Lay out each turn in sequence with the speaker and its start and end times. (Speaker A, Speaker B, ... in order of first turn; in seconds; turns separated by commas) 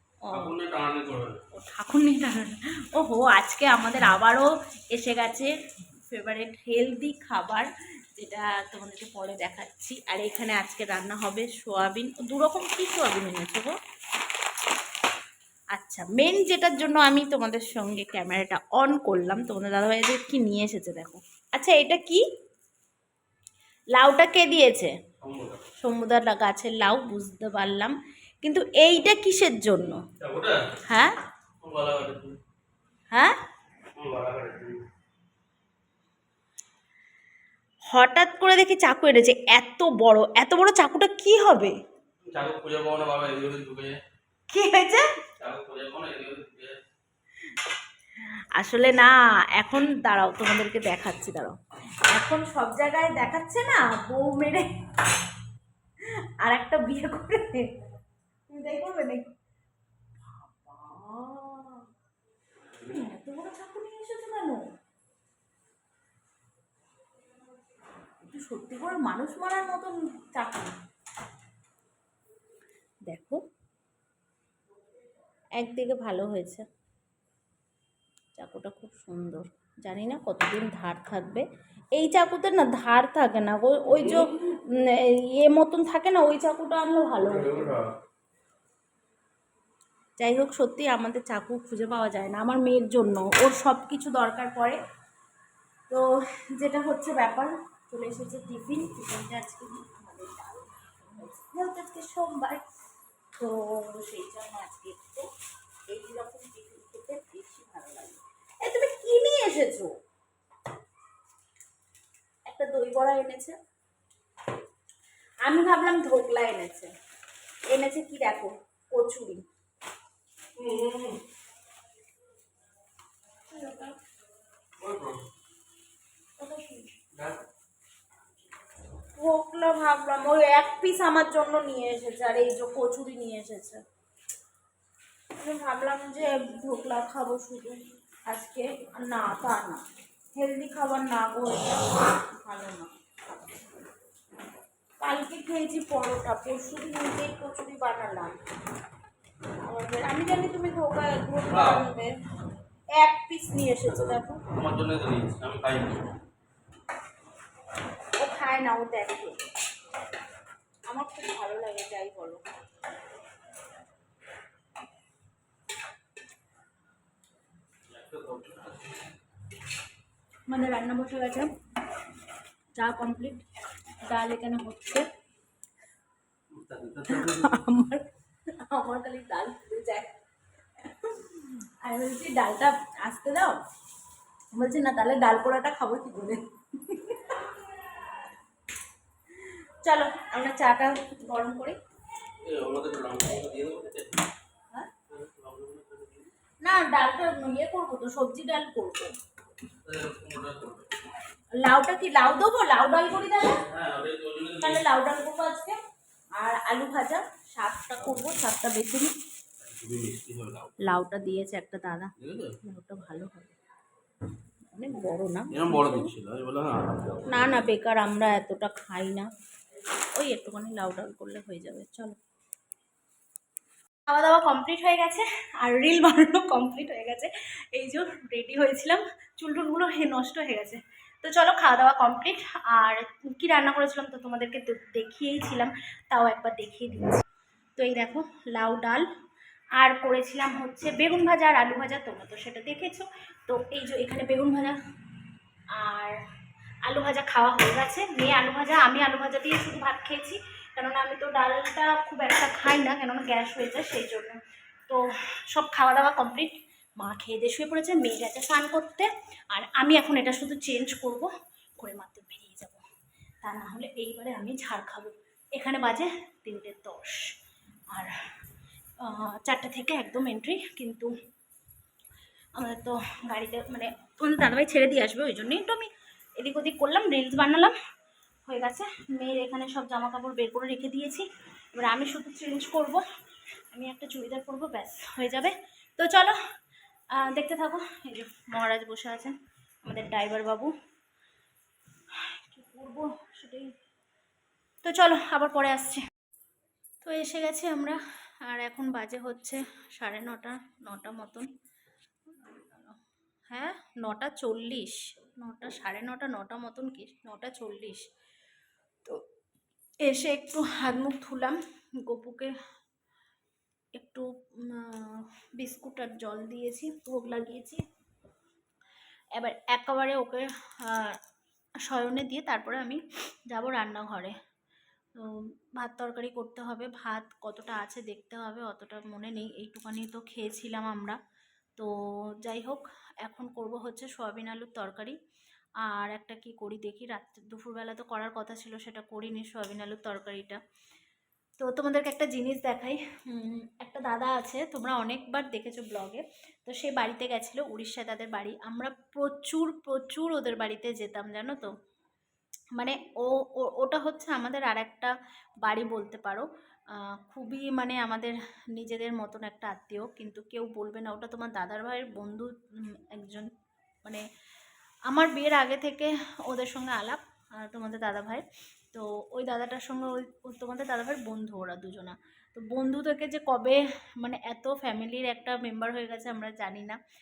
Speaker A: 0.2-0.5, Speaker B: 0.3-1.4, Speaker A: 1.5-13.8, Speaker A: 15.7-22.2, Speaker A: 23.9-24.9, Speaker B: 25.2-25.6, Speaker A: 25.8-30.0, Speaker B: 30.2-30.6, Speaker A: 30.9-31.1, Speaker B: 31.6-32.4, Speaker B: 34.0-34.8, Speaker A: 37.9-41.8, Speaker B: 42.3-43.9, Speaker A: 44.5-45.1, Speaker B: 45.4-46.8, Speaker A: 48.6-51.6, Speaker A: 52.1-54.7, Speaker A: 56.4-57.7, Speaker A: 58.5-59.3, Speaker A: 60.2-61.9, Speaker A: 62.8-64.6, Speaker A: 68.2-70.8, Speaker A: 73.1-73.4, Speaker A: 75.6-76.7, Speaker A: 78.3-87.8, Speaker B: 87.6-87.8, Speaker A: 90.2-94.8, Speaker A: 95.9-102.7, Speaker A: 103.3-105.3, Speaker A: 105.9-110.0, Speaker A: 112.5-113.5, Speaker A: 115.4-116.9, Speaker A: 117.7-119.4, Speaker B: 120.6-121.2, Speaker A: 123.5-124.0, Speaker B: 124.8-125.2, Speaker A: 126.4-126.8, Speaker B: 127.1-127.4, Speaker A: 129.2-133.8, Speaker A: 135.4-139.8, Speaker A: 140.3-142.9, Speaker A: 145.0-148.4, Speaker A: 149.6-152.1, Speaker B: 151.5-151.8, Speaker A: 152.9-154.4, Speaker B: 153.9-156.1, Speaker A: 158.2-159.5, Speaker A: 160.9-162.4, Speaker B: 167.9-168.9, Speaker A: 170.5-171.5, Speaker A: 172.7-173.4, Speaker A: 174.1-175.1, Speaker B: 176.5-177.6, Speaker A: 177.1-180.2, Speaker A: 180.8-183.6, Speaker A: 184.5-187.5, Speaker A: 189.4-191.8, Speaker B: 192.4-194.2, Speaker B: 195.1-196.3, Speaker A: 196.6-199.2, Speaker B: 199.8-200.9, Speaker A: 201.6-203.6, Speaker B: 203.6-204.8, Speaker A: 204.6-205.8, Speaker A: 206.4-209.1, Speaker B: 209.6-210.8, Speaker A: 210.8-213.5, Speaker B: 212.2-212.6, Speaker A: 214.7-216.1, Speaker B: 215.5-217.7, Speaker A: 217.3-219.3, Speaker A: 220.1-222.2, Speaker A: 224.1-237.2, Speaker A: 237.8-239.1, Speaker A: 239.8-244.8, Speaker A: 245.7-246.2, Speaker A: 246.8-262.8, Speaker A: 263.4-267.3, Speaker A: 269.0-271.1, Speaker A: 272.5-277.7, Speaker A: 278.5-283.0, Speaker A: 283.7-286.4, Speaker A: 287.1-290.7, Speaker A: 292.2-293.7, Speaker A: 294.8-296.1, Speaker A: 297.0-301.5, Speaker A: 302.3-303.0, Speaker A: 303.5-308.1, Speaker A: 310.0-312.5, Speaker A: 313.9-317.8, Speaker A: 319.4-321.2, Speaker A: 321.9-324.4, Speaker A: 325.2-331.2, Speaker A: 331.8-335.1, Speaker A: 335.8-340.6, Speaker A: 341.6-351.7, Speaker A: 352.8-363.5, Speaker A: 365.1-377.0